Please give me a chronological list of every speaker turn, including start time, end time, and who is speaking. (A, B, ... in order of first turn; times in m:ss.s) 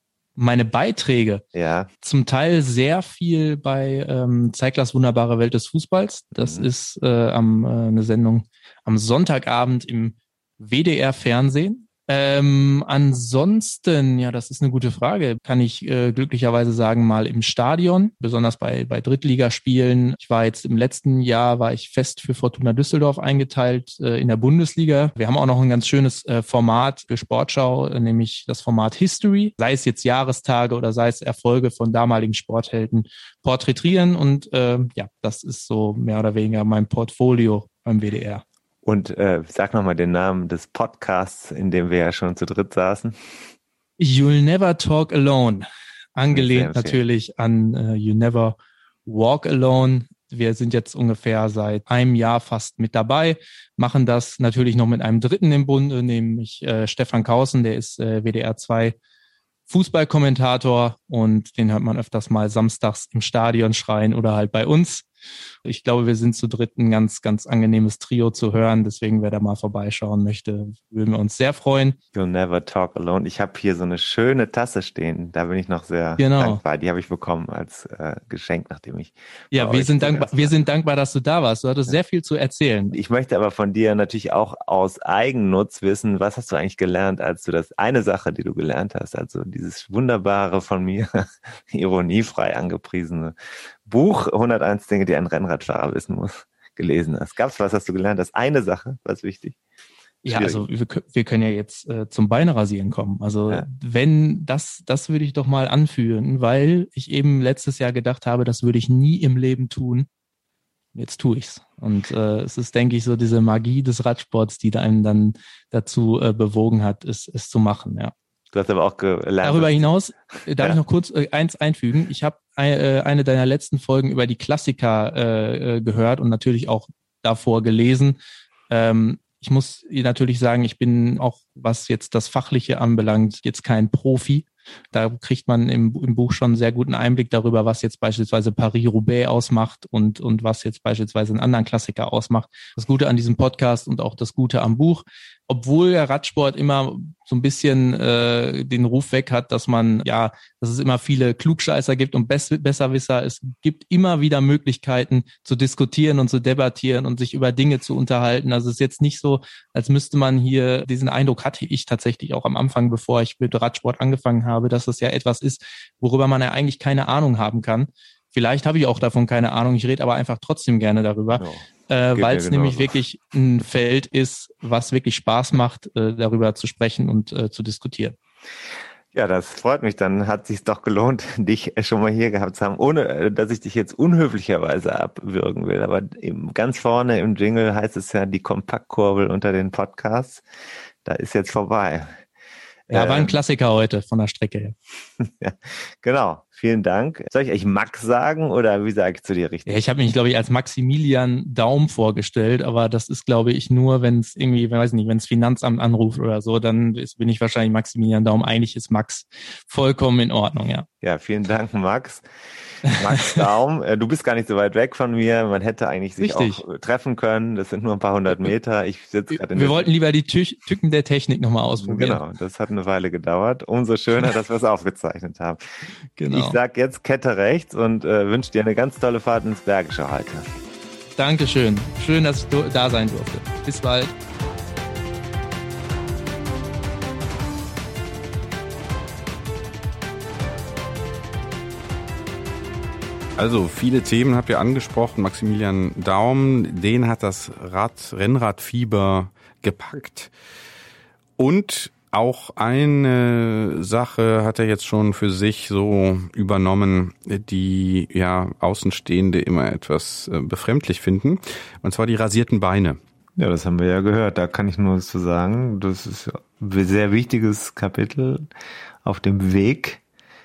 0:00.4-0:01.4 A
0:01.5-0:01.9 B
0:02.0-0:38.4 A
0:06.4-0:06.7 B
0:38.8-0:43.4 B
0:44.0-0:59.0 A
0:46.3-0:47.0 B
0:59.7-1:05.1 A
1:05.6-1:12.0 A
1:12.1-1:20.6 B
1:16.2-1:16.6 A
1:19.5-1:23.0 A
1:22.9-1:39.6 B
1:40.2-1:50.1 A
1:40.3-1:40.6 B
1:51.0-1:58.1 A
1:58.5-1:59.9 B
1:59.4-2:08.2 A
2:08.7-2:58.2 A
2:51.4-2:53.0 B
2:59.1-3:10.4 B
3:11.0-3:12.1 B
3:12.9-3:13.4 B
3:12.9-3:14.8 A
3:15.2-3:19.8 B
3:19.7-3:30.9 A
3:31.0-3:32.3 B
3:32.8-3:33.4 A
3:32.8-3:39.9 B
3:36.2-3:36.6 A
3:39.3-3:42.2 A
3:41.8-3:45.6 B
3:46.2-3:46.6 A
3:46.3-3:50.5 B
3:51.2-3:54.1 A
4:03.4-4:10.3 C
4:11.4-4:23.0 C
4:23.4-4:28.5 B
4:29.0-4:30.0 B